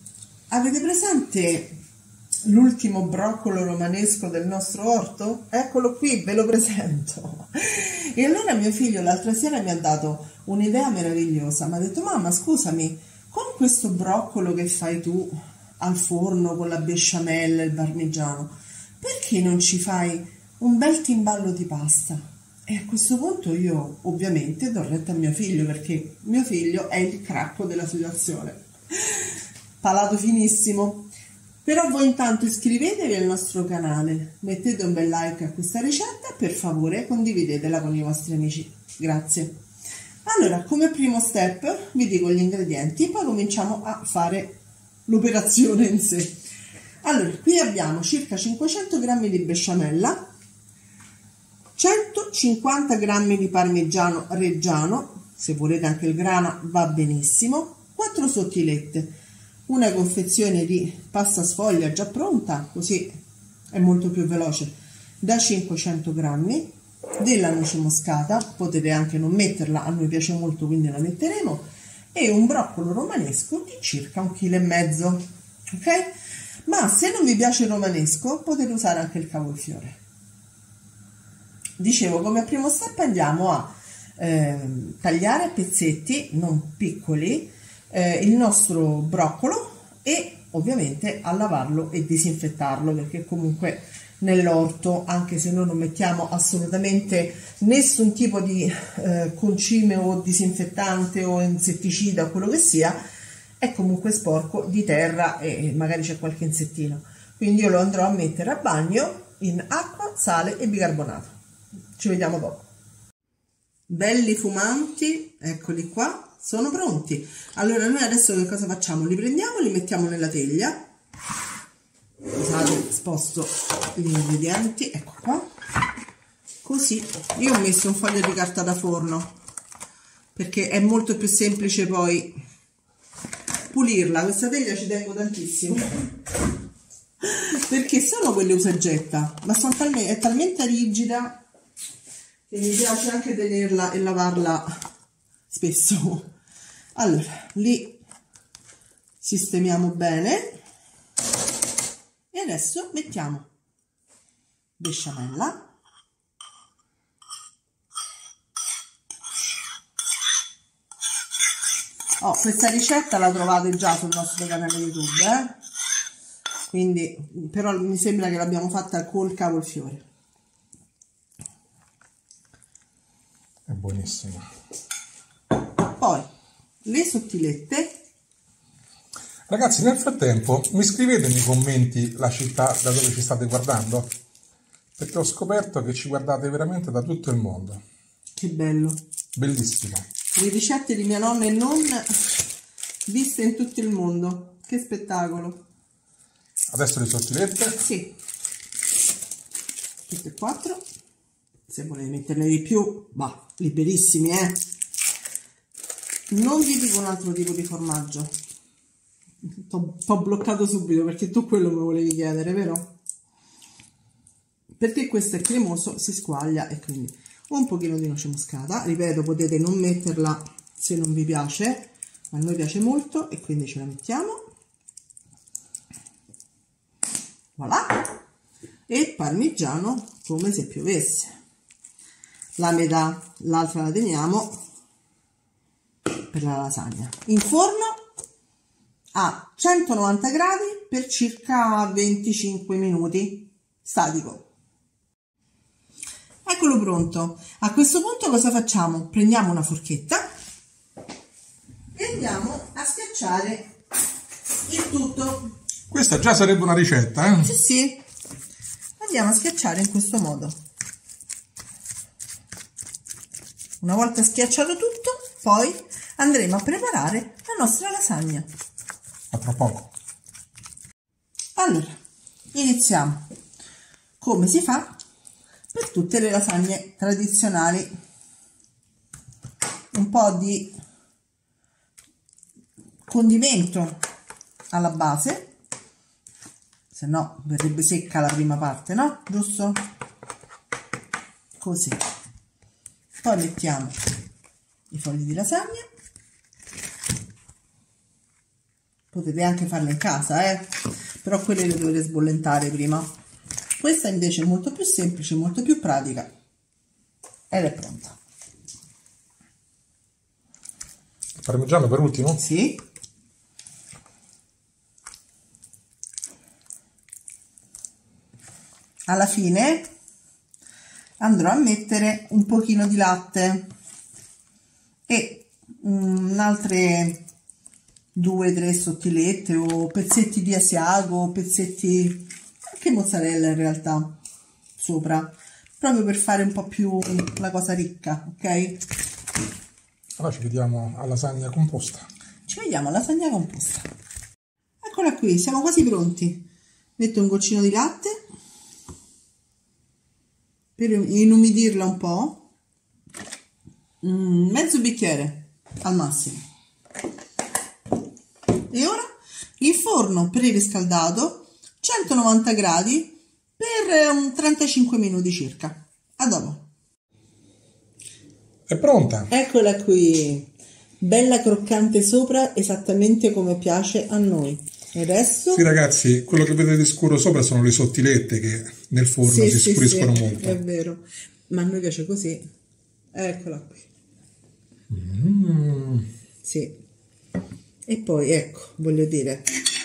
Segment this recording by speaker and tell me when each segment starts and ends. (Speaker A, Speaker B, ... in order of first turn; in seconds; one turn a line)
Speaker A: 0.5-1.7
Speaker A: 2.4-29.3
Speaker A: 29.8-31.1
Speaker A: 31.6-39.6
Speaker A: 40.2-46.4
Speaker A: 47.0-50.2
Speaker A: 51.8-59.1
Speaker A: 59.7-63.1
Speaker A: 63.7-76.1
Speaker A: 76.6-80.0
Speaker A: 81.8-103.0
Speaker A: 103.6-111.3
Speaker A: 112.0-112.7
Speaker A: 113.9-120.8
Speaker A: 122.3-125.5
Speaker A: 126.6-129.3
Speaker A: 130.3-132.3
Speaker A: 133.7-136.1
Speaker A: 137.2-141.4
Speaker A: 142.5-144.7
Speaker A: 145.5-146.3
Speaker A: 146.9-148.0
Speaker A: 149.2-150.6
Speaker A: 152.3-153.5
Speaker A: 154.8-155.6
Speaker A: 162.2-165.6
Speaker A: 166.7-170.0
Speaker B: 173.7-174.4
Speaker A: 175.9-176.3
Speaker A: 176.8-178.0
Speaker B: 179.5-184.1
Speaker B: 185.0-187.8
Speaker A: 188.3-189.0
Speaker B: 189.3-190.0
Speaker A: 190.3-192.1
Speaker A: 193.1-195.6
Speaker B: 196.7-197.8
Speaker A: 197.8-198.1
Speaker A: 200.1-200.8
Speaker A: 201.7-204.6
Speaker A: 206.3-208.3
Speaker A: 209.5-212.9
Speaker A: 214.8-224.4
Speaker A: 227.6-228.1
Speaker A: 228.9-231.3
Speaker A: 232.6-234.6
Speaker A: 236.3-238.0
Speaker A: 239.1-244.5
Speaker A: 246.4-250.2
Speaker A: 251.9-253.7
Speaker A: 254.7-255.5
Speaker B: 255.9-257.5
Speaker A: 257.3-258.0
Speaker A: 259.0-260.6
Speaker A: 263.8-268.5
Speaker B: 269.3-269.9
Speaker A: 271.6-272.0
Speaker A: 272.5-273.2
Speaker A: 274.2-275.0
Speaker A: 275.7-277.9
Speaker A: 279.9-280.7
Speaker A: 283.1-284.0
Speaker A: 284.7-285.5
Speaker A: 286.9-289.8
Speaker A: 291.6-292.0
Speaker A: 293.2-294.0
Speaker A: 294.9-295.9
Speaker A: 299.1-303.1
Speaker A: 303.8-306.3
Speaker A: 307.5-308.1
Speaker B: 311.4-312.4
Speaker A: 312.4-312.8
Speaker A: 319.1-319.9
Speaker A: 321.2-323.7
Speaker A: 325.1-327.2
Speaker A: 328.1-334.2
Speaker A: 334.8-338.8
Speaker B: 340.2-342.1
Speaker A: 342.5-343.9
Speaker A: 344.8-346.4
Speaker A: 347.0-348.1
Speaker A: 350.8-352.5
Speaker A: 354.0-356.4
Speaker A: 358.7-359.1
Speaker A: 359.6-366.7
Speaker B: 368.7-369.3
Speaker A: 369.3-375.7
Speaker B: 375.5-380.6
Speaker A: 379.2-382.5
Speaker A: 383.1-383.9
Speaker B: 384.9-386.1
Speaker A: 386.4-386.8
Speaker A: 387.9-389.5